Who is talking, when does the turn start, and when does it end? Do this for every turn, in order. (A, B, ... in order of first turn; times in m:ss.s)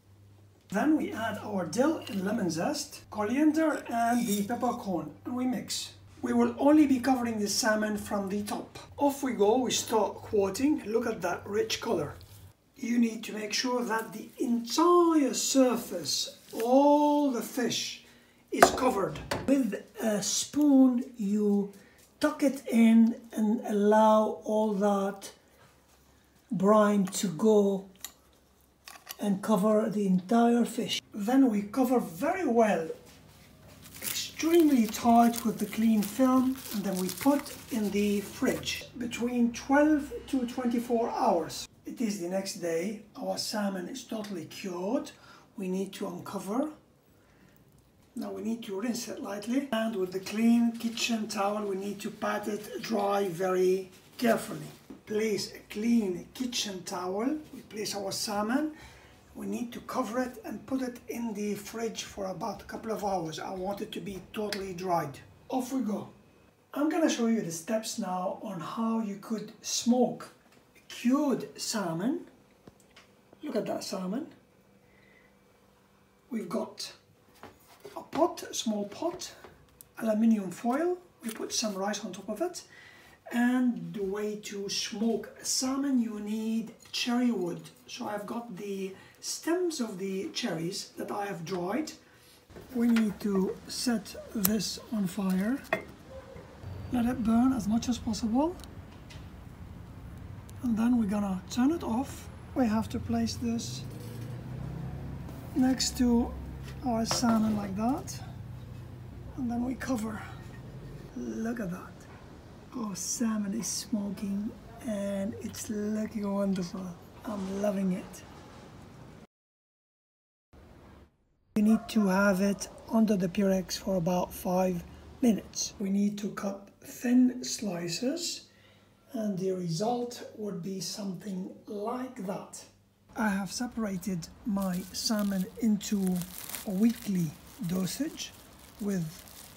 0:00.7-0:12.2 A
0:12.8-0:25.4 A
0:26.5-0:27.9 A
0:29.2-0:32.9 A
0:34.0-0:46.7 A
0:48.1-0:58.7 A
0:59.3-1:06.1 A
1:06.7-1:10.3 A
1:10.8-1:12.3 A
1:13.4-1:14.3 A
1:16.3-1:17.0 A
1:17.9-1:19.3 A
1:20.0-1:22.7 A
1:23.3-1:32.0 A
1:32.7-1:35.6 A
1:36.9-1:38.6 A
1:40.6-1:43.9 A
1:45.5-1:48.2 A
1:49.4-1:50.2 A
1:51.1-1:52.1 A
1:52.7-1:58.3 A
2:01.5-2:08.4 A
2:09.1-2:19.3 A